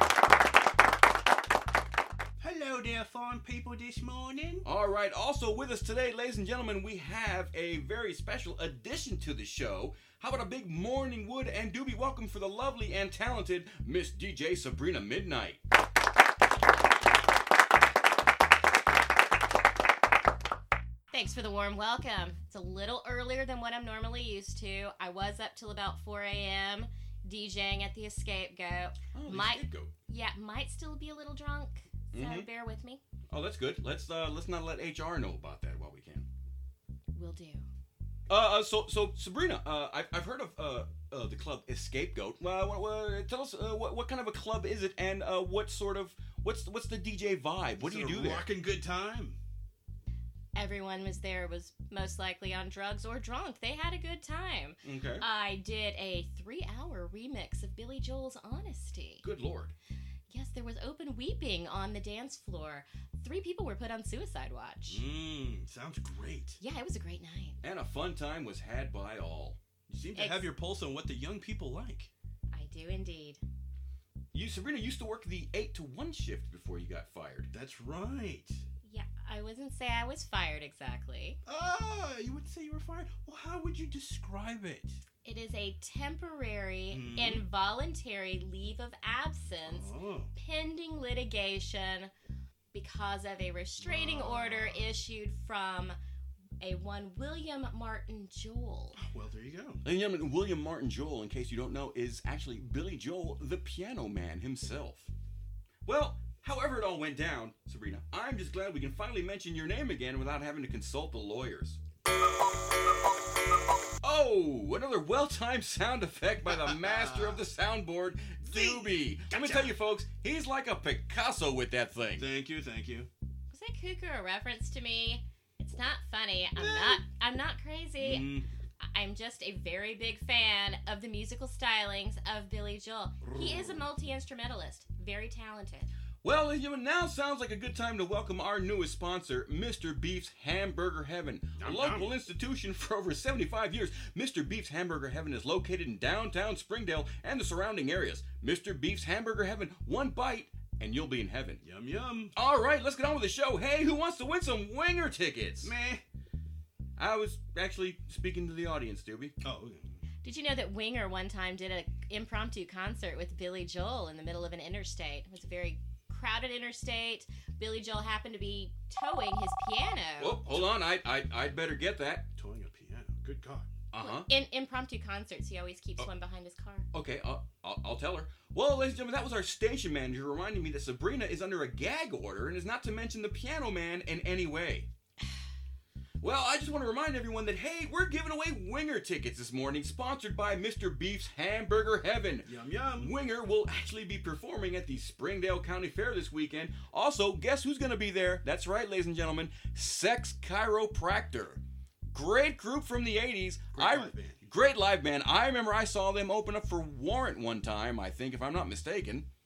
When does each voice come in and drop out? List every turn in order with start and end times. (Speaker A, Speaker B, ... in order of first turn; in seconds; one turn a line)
Speaker A: 2.4-4.6
Speaker B: 4.7-15.6
Speaker C: 21.1-33.0
Speaker B: 29.1-29.9
Speaker B: 32.1-32.5
Speaker B: 33.3-36.3
Speaker C: 37.1-37.7
Speaker B: 38.3-48.5
Speaker A: 47.8-49.4
Speaker C: 50.5-59.2
Speaker B: 54.8-55.3
Speaker B: 59.2-59.8
Speaker C: 60.3-65.0
Speaker A: 64.9-66.6
Speaker C: 66.6-67.6
Speaker B: 67.6-69.6
Speaker A: 69.9-72.1
Speaker C: 70.2-70.5
Speaker C: 72.5-73.4
Speaker B: 74.3-77.5
Speaker A: 77.5-78.6
Speaker C: 78.8-81.4
Speaker A: 81.5-85.0
Speaker C: 85.2-92.1
Speaker A: 86.9-87.5
Speaker A: 89.7-90.3
Speaker C: 92.7-96.0
Speaker A: 93.8-94.8
Speaker C: 96.6-99.0
Speaker A: 99.0-99.8
Speaker B: 99.8-105.1
Speaker B: 105.8-111.8
Speaker B: 114.0-122.3
Speaker A: 116.5-117.4
Speaker A: 118.5-119.8
Speaker A: 122.2-123.1
Speaker C: 123.5-135.9
Speaker A: 126.6-127.0
Speaker A: 128.0-128.5
Speaker B: 136.2-151.6
Speaker A: 141.6-142.1
Speaker A: 151.6-152.3
Speaker B: 152.3-155.7
Speaker A: 155.6-156.0
Speaker B: 157.0-159.3
Speaker A: 159.4-160.0
Speaker C: 160.2-170.5
Speaker B: 170.2-172.3
Speaker A: 172.4-173.7
Speaker B: 173.9-174.3
Speaker C: 174.0-176.9
Speaker B: 176.9-184.9
Speaker B: 186.2-209.3
Speaker A: 192.4-193.1
Speaker A: 203.7-204.4